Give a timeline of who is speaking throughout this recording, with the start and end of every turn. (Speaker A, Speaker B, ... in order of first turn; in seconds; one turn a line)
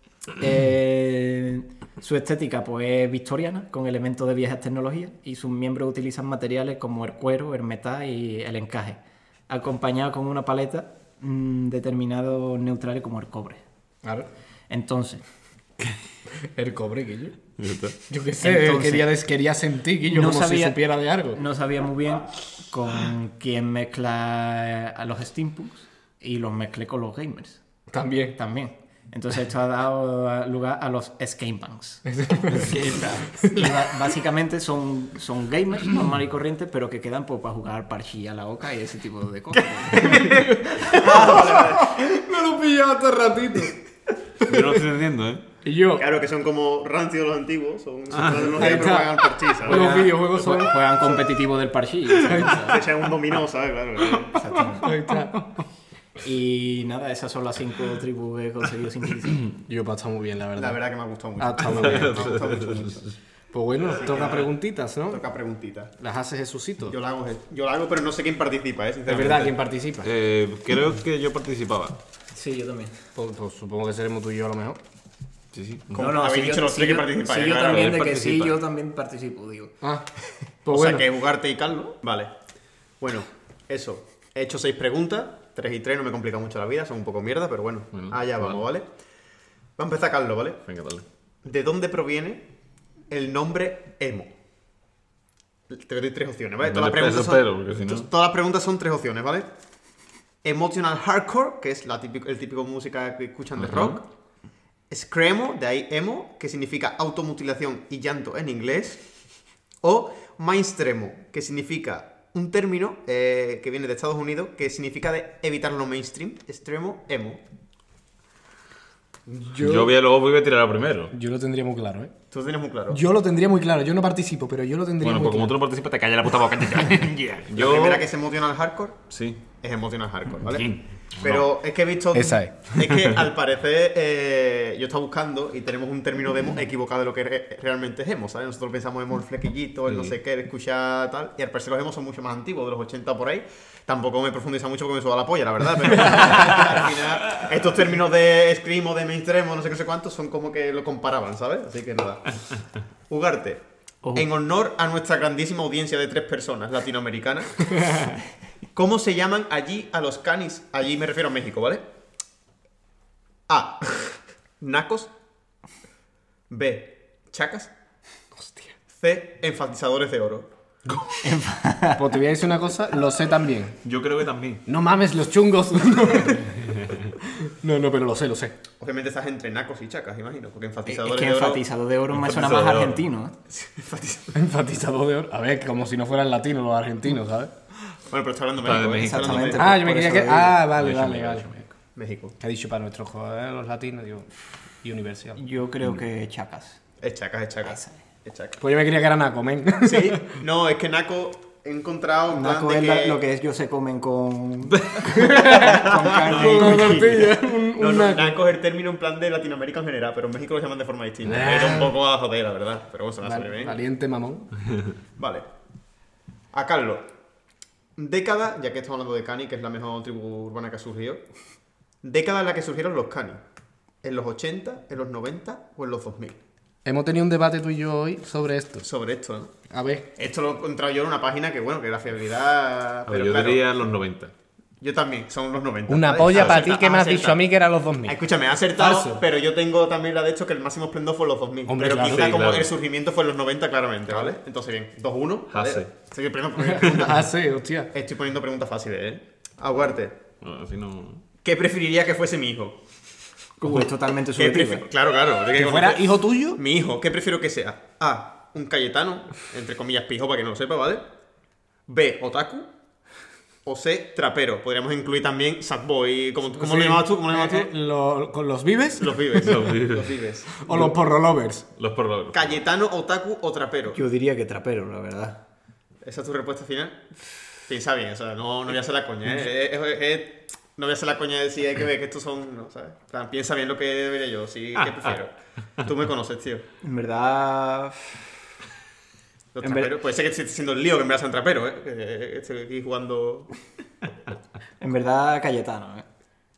Speaker A: 0.4-9.0
Speaker A: 9.5-13.6
Speaker A: 14.7-15.2
Speaker B: 16.5-17.4
Speaker C: 17.6-18.0
Speaker B: 18.1-21.4
Speaker A: 18.4-19.1
Speaker A: 20.1-20.8
Speaker A: 21.3-27.6
Speaker B: 27.9-28.4
Speaker A: 28.4-41.6
Speaker B: 32.2-32.7
Speaker B: 33.4-33.7
Speaker D: 39.5-42.0
Speaker B: 40.2-43.8
Speaker C: 44.4-45.5
Speaker B: 45.6-46.1
Speaker D: 46.0-50.1
Speaker C: 48.1-48.5
Speaker B: 48.5-50.8
Speaker A: 49.6-52.9
Speaker B: 52.2-52.8
Speaker D: 52.3-54.6
Speaker A: 54.3-55.0
Speaker B: 54.8-55.6
Speaker A: 56.2-59.5
Speaker B: 59.7-60.8
Speaker D: 60.6-63.1
Speaker B: 61.4-62.3
Speaker C: 61.7-63.0
Speaker B: 63.5-65.2
Speaker D: 63.9-64.5
Speaker D: 65.1-65.9
Speaker B: 66.0-67.0
Speaker D: 66.9-69.5
Speaker B: 69.1-70.1
Speaker C: 70.0-72.0
Speaker A: 72.3-72.9
Speaker B: 73.2-74.8
Speaker C: 75.5-76.1
Speaker A: 76.0-79.8
Speaker D: 76.0-77.8
Speaker C: 77.6-78.6
Speaker B: 79.8-80.1
Speaker B: 80.7-81.0
Speaker D: 80.7-82.3
Speaker D: 83.0-88.9
Speaker C: 87.9-88.7
Speaker D: 89.8-90.6
Speaker C: 90.7-91.0
Speaker D: 91.4-92.5
Speaker D: 93.1-94.3
Speaker D: 95.7-99.5
Speaker C: 96.6-98.1
Speaker D: 100.4-104.0
Speaker C: 103.6-104.0
Speaker D: 104.9-109.0
Speaker D: 109.8-117.4
Speaker B: 119.3-119.9
Speaker C: 119.6-121.1
Speaker B: 121.1-122.1
Speaker D: 122.3-123.0
Speaker B: 122.9-125.6
Speaker C: 125.0-128.1
Speaker D: 127.5-129.1
Speaker C: 129.1-129.4
Speaker D: 129.6-152.4
Speaker C: 130.4-131.5
Speaker B: 132.1-133.1
Speaker D: 153.1-158.1
Speaker D: 158.7-161.8
Speaker D: 163.5-165.1
Speaker D: 166.5-167.7
Speaker B: 168.3-168.7
Speaker D: 168.9-170.5
Speaker A: 171.2-172.1
Speaker B: 171.9-173.8
Speaker C: 173.8-174.6
Speaker B: 174.7-176.6
Speaker C: 176.7-177.1
Speaker B: 177.3-178.6
Speaker D: 178.8-181.6
Speaker A: 180.9-183.3
Speaker C: 182.1-183.0
Speaker D: 183.5-184.3
Speaker B: 184.3-187.5
Speaker D: 188.1-189.6
Speaker C: 188.6-189.6
Speaker A: 188.9-190.6
Speaker B: 189.6-191.6
Speaker C: 190.8-191.7
Speaker D: 191.9-192.3
Speaker B: 192.4-194.3
Speaker B: 194.8-195.4
Speaker A: 195.4-196.8
Speaker D: 197.0-198.6
Speaker A: 197.7-197.9
Speaker B: 198.6-200.2
Speaker D: 199.8-203.2
Speaker A: 202.3-207.3
Speaker B: 205.1-205.8
Speaker D: 205.3-213.8
Speaker B: 206.4-208.4
Speaker B: 211.2-211.9
Speaker B: 213.2-214.5
Speaker D: 215.2-215.5
Speaker D: 216.5-217.1
Speaker D: 218.0-221.2
Speaker D: 222.0-223.4
Speaker D: 224.0-226.4
Speaker B: 226.8-228.9
Speaker D: 228.8-229.5
Speaker B: 229.7-230.0
Speaker D: 230.2-233.7
Speaker C: 233.1-234.3
Speaker D: 234.8-237.4
Speaker B: 235.9-238.2
Speaker D: 238.1-247.3
Speaker B: 238.8-239.2
Speaker B: 241.7-242.4
Speaker C: 242.0-242.7
Speaker C: 245.5-245.9
Speaker B: 246.6-247.9
Speaker D: 247.9-250.2
Speaker C: 250.4-251.2
Speaker D: 251.4-252.8
Speaker A: 253.6-254.9
Speaker D: 254.4-261.1
Speaker B: 255.6-256.6
Speaker D: 261.9-262.7
Speaker D: 263.6-267.7
Speaker B: 266.6-269.4
Speaker D: 269.0-270.7
Speaker C: 269.4-270.2
Speaker B: 270.6-271.7
Speaker C: 271.8-272.6
Speaker D: 272.3-274.0
Speaker A: 273.9-275.4
Speaker D: 276.0-277.0
Speaker D: 277.7-286.7
Speaker A: 286.8-288.2
Speaker D: 289.6-293.5
Speaker A: 289.6-289.9
Speaker A: 294.8-296.0